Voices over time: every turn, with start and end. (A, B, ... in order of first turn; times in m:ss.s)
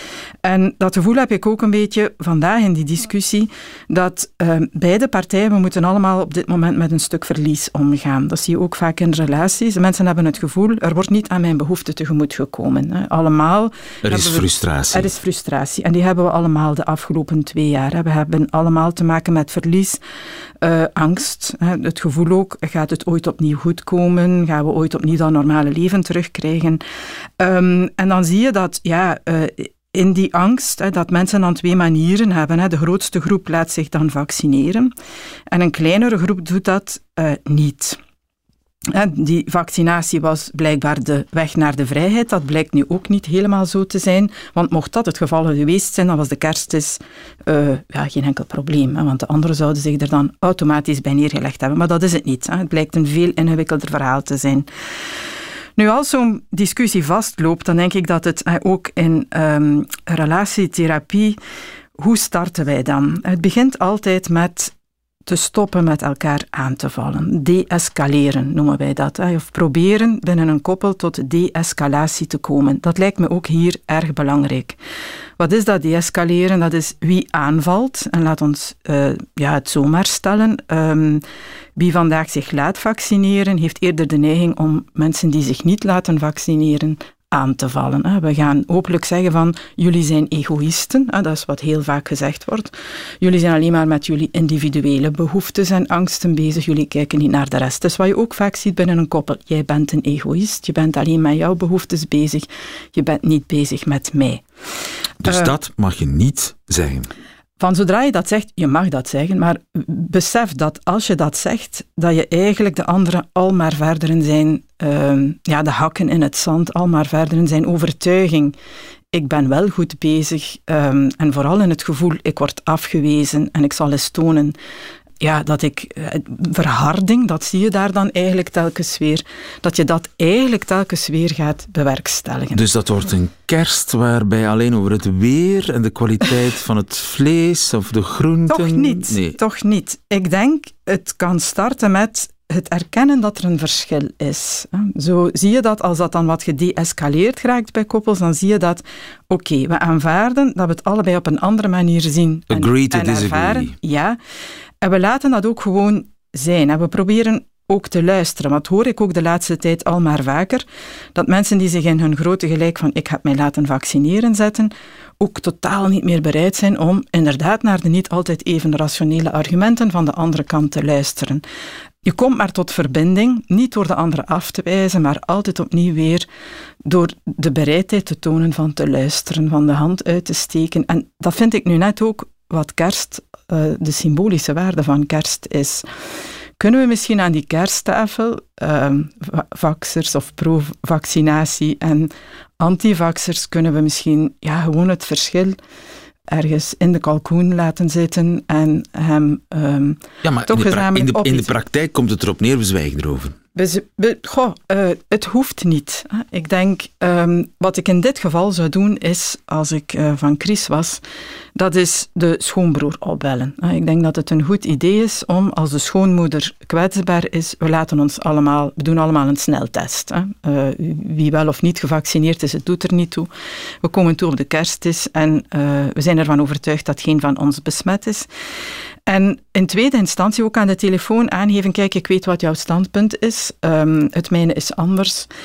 0:00.4-0:20.0 A
0:14.0-0:15.1 B
0:20.6-0:26.8 A
0:27.4-0:34.9 A
0:35.5-0:38.0 A
0:38.9-0:54.7 A
0:55.8-1:01.4 A
1:02.0-1:04.7 A
1:05.3-1:14.8 A
1:15.4-1:21.2 A
1:21.8-1:44.4 A
1:45.2-1:47.1 B
1:47.6-1:58.6 A
1:59.1-2:04.6 A
2:05.2-2:12.6 A
2:12.5-2:19.4 B
2:18.5-2:34.2 A
2:32.5-2:33.8 B
2:34.8-2:51.4 A
2:52.0-2:56.3 A
2:56.8-3:05.8 A
3:06.6-3:15.6 A
3:16.3-3:21.6 A
3:20.2-3:23.4 B
3:23.6-3:31.0 A
3:31.6-3:43.3 A
3:43.8-3:48.3 A
3:49.1-3:55.3 A